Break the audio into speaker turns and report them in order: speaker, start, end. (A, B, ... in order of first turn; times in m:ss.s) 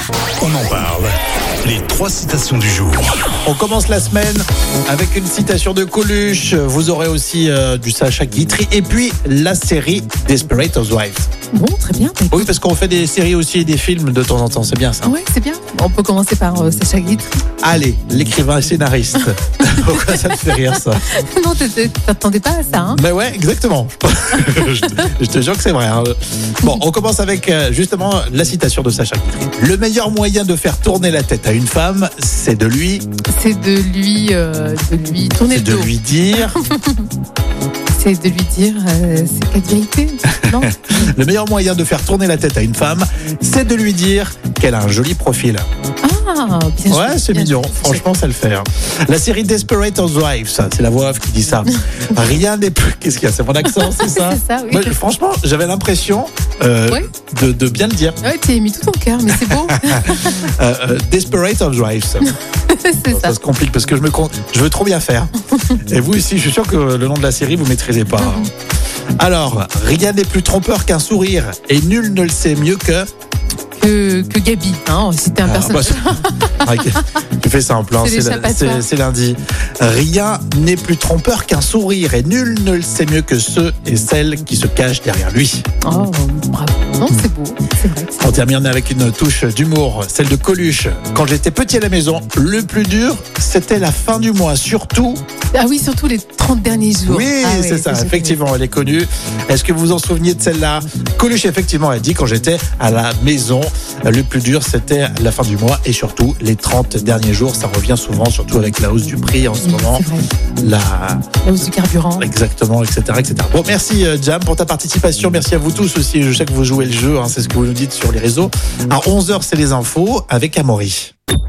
0:00.4-0:03.2 A
0:03.4-0:11.3 B
0:11.5-0:12.5 C
0:12.3-0:15.1 B
0:15.0-0:17.4 C
0:17.6-0:21.0 B
0:19.9-0:23.0 C
0:22.9-0:33.0 B
0:33.3-0:37.1 C
0:35.5-0:36.6 B
0:38.0-0:41.1 C
0:40.4-0:45.7 B
0:46.0-0:48.0 C
0:46.9-0:58.2 B
0:53.6-0:55.0 C
0:58.2-1:00.5 C
0:59.7-1:02.3 B
1:02.2-1:03.4 C
1:03.1-1:08.5 B
1:08.1-1:08.5 C
1:09.2-1:13.1 B
1:13.8-1:17.0 C
1:15.4-1:25.6 B
1:18.0-1:18.9 C
1:25.8-1:28.4 C
1:28.2-1:35.2 B
1:35.5-1:38.4 C
1:37.0-1:50.0 B
1:49.6-1:50.3 C
1:50.6-1:51.4 B
1:51.4-1:52.2 C
1:52.2-2:01.1 B